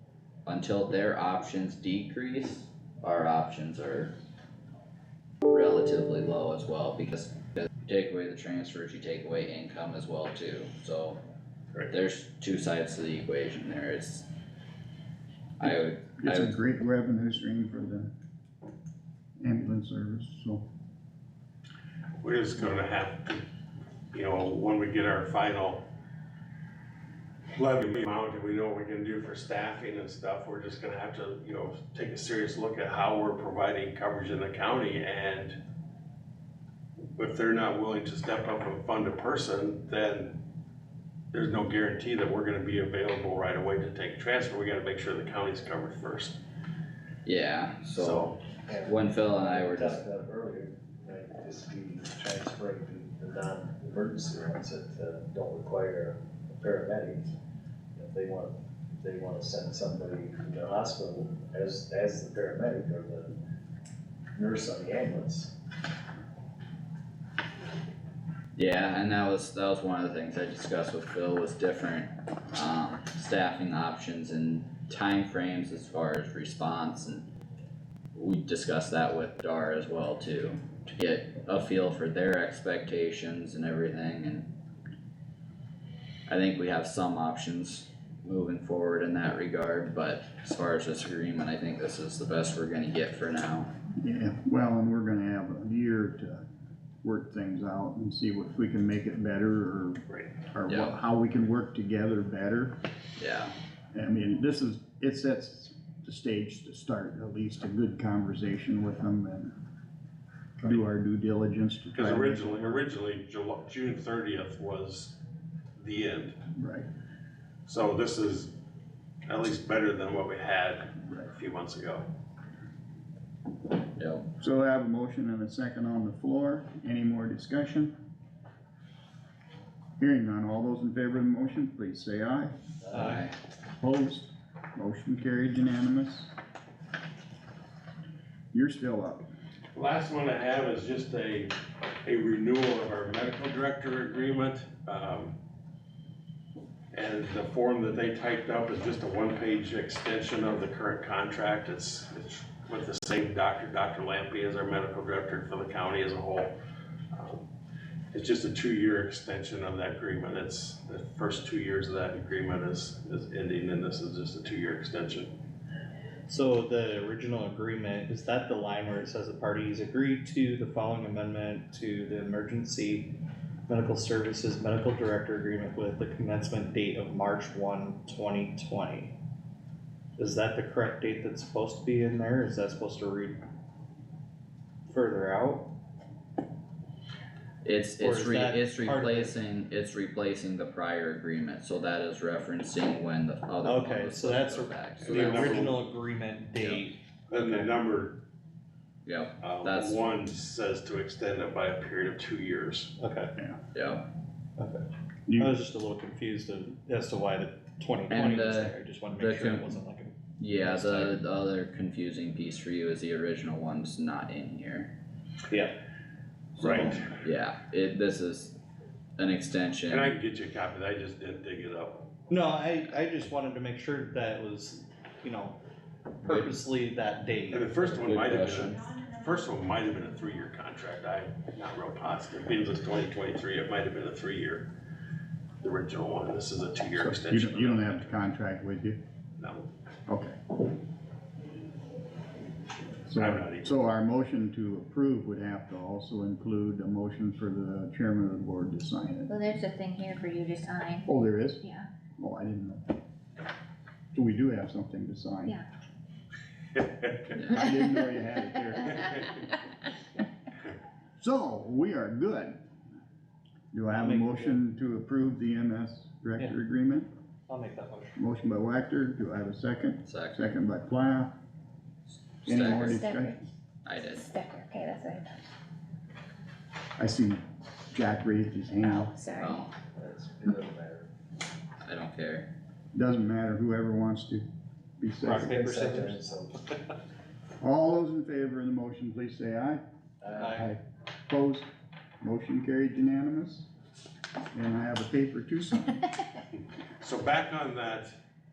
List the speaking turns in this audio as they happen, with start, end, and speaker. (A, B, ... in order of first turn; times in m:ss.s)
0:00.5-0:04.1 A
0:05.5-0:11.2 A
0:11.9-0:14.3 A
0:15.6-0:16.6 A
0:15.6-0:18.1 B
0:19.4-0:20.6 B
0:22.2-0:23.4 C
0:24.1-0:25.8 C
0:27.6-0:35.6 C
0:37.2-0:40.4 C
0:41.3-0:46.4 C
0:47.3-0:50.0 A
0:47.9-0:48.4 C
0:48.7-0:57.3 D
0:58.0-1:03.4 D
1:04.4-1:05.5 D
1:08.5-1:17.3 A
1:18.2-1:24.5 A
1:26.3-1:33.7 A
1:34.0-1:36.4 B
1:37.0-1:42.8 B
1:40.7-1:41.0 A
1:43.2-1:43.5 A
1:43.9-1:49.6 B
1:50.6-1:52.8 B
1:52.0-1:55.2 C
1:55.8-1:56.4 C
1:56.6-1:56.9 B
1:57.7-1:58.5 C
1:59.3-2:02.1 C
2:04.0-2:04.3 A
2:04.4-2:08.0 B
2:10.0-2:12.6 B
2:12.9-2:13.2 E
2:13.0-2:13.3 A
2:13.8-2:16.3 B
2:18.5-2:19.3 B
2:19.8-2:25.4 C
2:26.9-2:36.6 C
2:37.1-2:37.5 C
2:38.1-2:45.3 C
2:46.3-2:59.2 E
3:00.2-3:03.4 E
3:04.9-3:05.7 E
3:07.6-3:15.7 A
3:08.0-3:09.4 E
3:13.6-3:17.7 E
3:15.0-3:15.8 C
3:16.6-3:16.9 A
3:17.3-3:18.2 C
3:19.0-3:20.0 A
3:19.4-3:22.9 C
3:23.0-3:23.3 E
3:23.7-3:24.0 A
3:24.6-3:31.2 E
3:25.3-3:25.5 B
3:28.1-3:29.8 A
3:30.4-3:34.9 A
3:35.5-3:35.8 E
3:36.6-3:37.1 C
3:36.6-3:38.6 A
3:39.2-3:40.1 A
3:39.9-3:42.1 C
3:42.3-3:45.6 E
3:46.2-3:47.7 E
3:46.2-3:46.5 A
3:47.5-3:54.7 C
3:47.9-3:48.8 A
3:55.6-3:58.0 C
3:57.0-3:59.0 B
3:59.4-3:59.7 C
4:00.1-4:00.4 B
4:03.1-4:09.3 B
4:03.2-4:03.7 C
4:09.3-4:11.1 F
4:11.1-4:11.6 B
4:11.6-4:11.9 F
4:12.2-4:13.0 B
4:14.1-4:15.6 B
4:17.4-4:19.3 B
4:21.2-4:22.6 B
4:23.7-4:27.1 B
4:23.9-4:24.6 E
4:27.5-4:28.2 E
4:28.2-4:31.3 B
4:30.0-4:30.6 A
4:32.4-4:33.4 B
4:32.5-4:33.0 A
4:32.6-4:33.4 F
4:33.8-4:34.3 A
4:34.1-4:35.5 F
4:37.0-4:39.1 B
4:38.8-4:39.6 F
4:39.4-4:39.7 A
4:40.0-4:41.1 D
4:41.8-4:42.5 A
4:43.0-4:44.4 B
4:45.0-4:45.6 B
4:45.2-4:46.2 E
4:45.3-4:46.7 D
4:47.6-4:49.8 B
4:50.2-4:50.6 D
4:50.4-4:50.7 E
4:50.5-4:51.7 B
4:52.2-4:53.7 B
4:54.5-4:56.0 B
4:57.0-4:58.2 C